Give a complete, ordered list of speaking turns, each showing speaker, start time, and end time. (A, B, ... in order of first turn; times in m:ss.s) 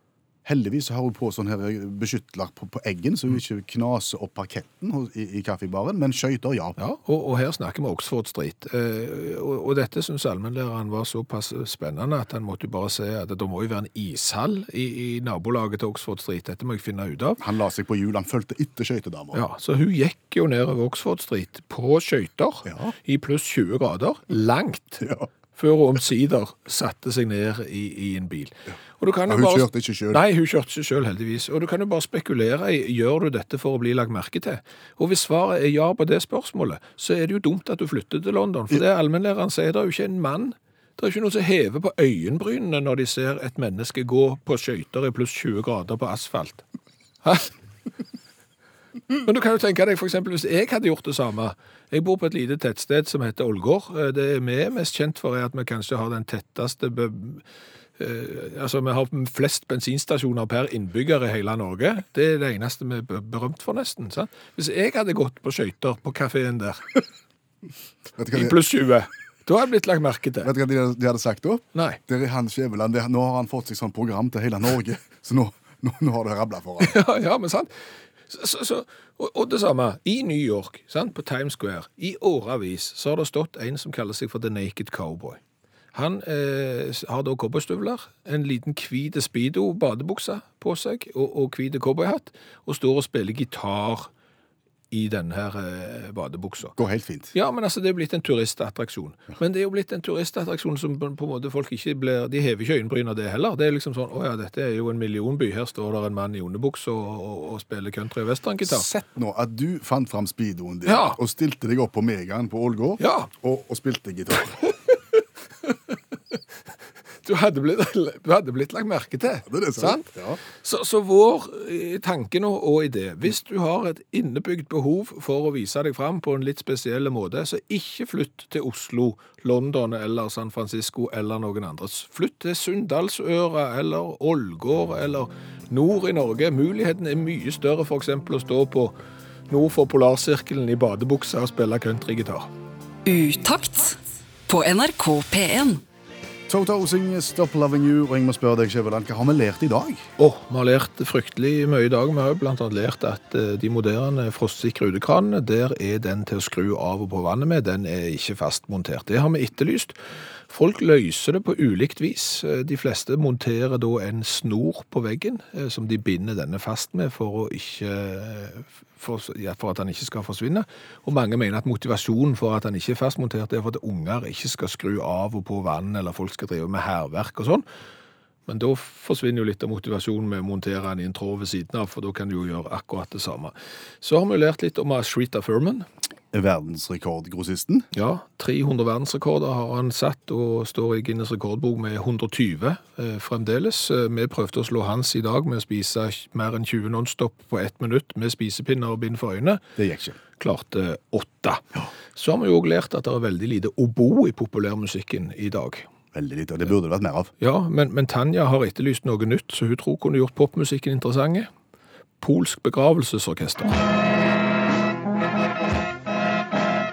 0:00.4-0:06.8 A
0:06.8-0:17.4 B
0:17.4-0:19.4 A
0:19.3-0:46.6 B
0:22.7-0:22.9 A
0:25.0-0:25.3 A
0:29.3-0:30.2 A
0:47.2-0:47.5 B
0:49.2-0:57.4 B
0:58.0-1:06.9 B
1:08.2-1:08.6 A
1:08.3-1:10.5 B
1:10.4-1:17.0 A
1:11.7-1:12.0 B
1:16.8-1:25.4 B
1:25.9-1:34.1 B
1:34.9-1:36.8 B
1:36.8-1:37.3 A
1:37.3-1:48.9 B
1:48.6-1:54.8 A
1:50.8-1:51.2 B
1:53.0-1:53.3 B
1:55.6-1:56.0 B
1:57.2-2:19.0 B
1:59.5-2:00.4 A
2:19.5-2:22.5 B
2:23.1-2:25.8 C
2:26.5-2:30.0 A
2:30.2-2:57.6 B
2:58.5-3:05.9 B
3:06.3-3:07.9 A
3:07.9-3:19.6 B
3:19.8-3:20.2 A
3:20.4-3:25.9 B
3:26.1-3:27.3 A
3:27.4-3:31.5 B
3:32.2-3:33.8 B